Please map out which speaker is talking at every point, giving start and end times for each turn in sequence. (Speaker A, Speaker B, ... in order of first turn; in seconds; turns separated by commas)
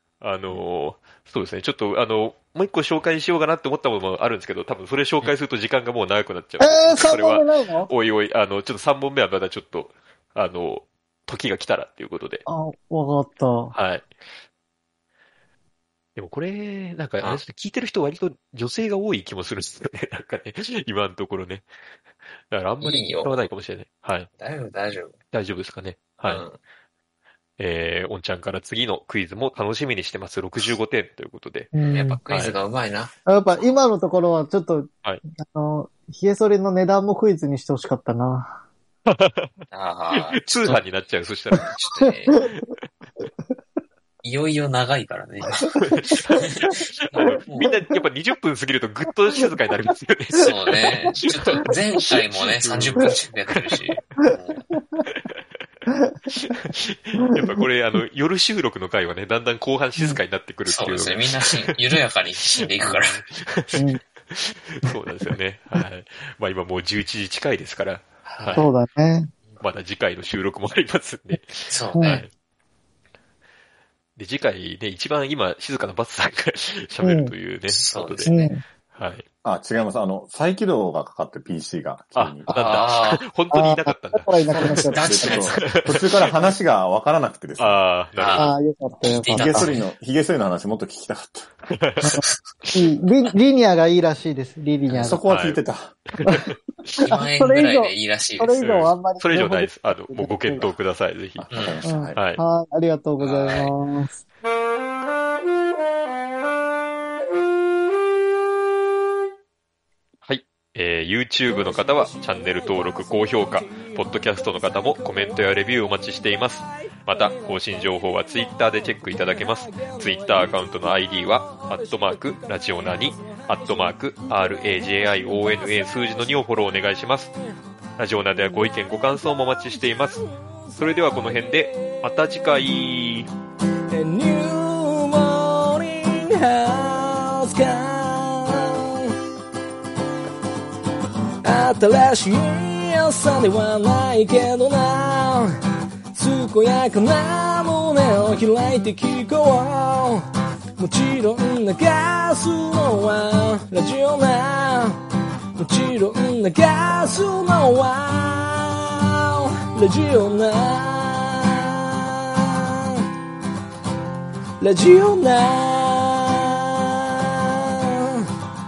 Speaker A: 0.2-12.4, Speaker B: 6.6-7.9, Speaker B: 12.5-13.7, Speaker A: 13.7-14.1, Speaker A: 16.1-21.6, Speaker A: 22.5-24.3, Speaker C: 22.8-23.4, Speaker C: 24.4-25.2, Speaker A: 25.3-26.4, Speaker C: 26.2-26.6, Speaker A: 27.6-31.7, Speaker B: 31.7-32.2, Speaker C: 31.9-33.1, Speaker A: 32.3-32.6, Speaker B: 33.3-38.6, Speaker A: 39.1-39.5, Speaker C: 39.7-40.8, Speaker A: 40.1-41.8, Speaker C: 41.7-42.4, Speaker A: 42.4-42.7, Speaker C: 44.2-45.7, Speaker B: 45.6-46.1, Speaker A: 45.8-51.7, Speaker C: 46.3-46.8, Speaker C: 47.4-47.7, Speaker C: 50.4-54.6, Speaker A: 52.6-54.0, Speaker A: 55.0-55.4, Speaker A: 56.3-61.7, Speaker C: 60.6-63.2, Speaker A: 62.5-68.7, Speaker B: 63.8-64.0, Speaker C: 68.3-68.6, Speaker B: 68.5-69.3, Speaker A: 69.6-72.3, Speaker C: 71.7-72.2, Speaker B: 71.9-72.2, Speaker A: 74.2-78.3, Speaker B: 77.0-77.3, Speaker C: 77.7-78.5, Speaker B: 78.3-78.6, Speaker A: 78.9-79.2, Speaker D: 79.4-82.6, Speaker A: 82.1-86.3, Speaker C: 82.5-83.2, Speaker B: 83.5-85.6, Speaker C: 84.7-85.5, Speaker D: 85.0-87.8, Speaker A: 87.6-88.5, Speaker C: 88.2-88.5, Speaker B: 88.3-89.7, Speaker C: 89.0-89.9, Speaker D: 89.3-91.5, Speaker A: 91.7-92.2, Speaker B: 92.0-95.2, Speaker C: 94.9-95.2, Speaker D: 95.0-96.0, Speaker A: 95.3-95.6, Speaker A: 96.2-97.1, Speaker C: 97.0-98.6, Speaker B: 97.0-100.7, Speaker A: 98.6-101.5, Speaker D: 101.4-102.2, Speaker C: 101.5-101.8, Speaker B: 101.8-104.2, Speaker A: 102.1-102.4, Speaker C: 103.2-103.7, Speaker A: 110.2-127.3, Speaker E: 111.7-113.9, Speaker E: 114.7-115.2, Speaker E: 119.7-120.8, Speaker E: 121.5-123.9, Speaker E: 125.0-126.0, Speaker A: 128.0-133.3, Speaker E: 133.9-139.1, Speaker E: 141.4-145.5, Speaker E: 146.1-150.2, Speaker E: 150.8-155.0, Speaker E: 155.6-163.0, Speaker E: 164.6-168.2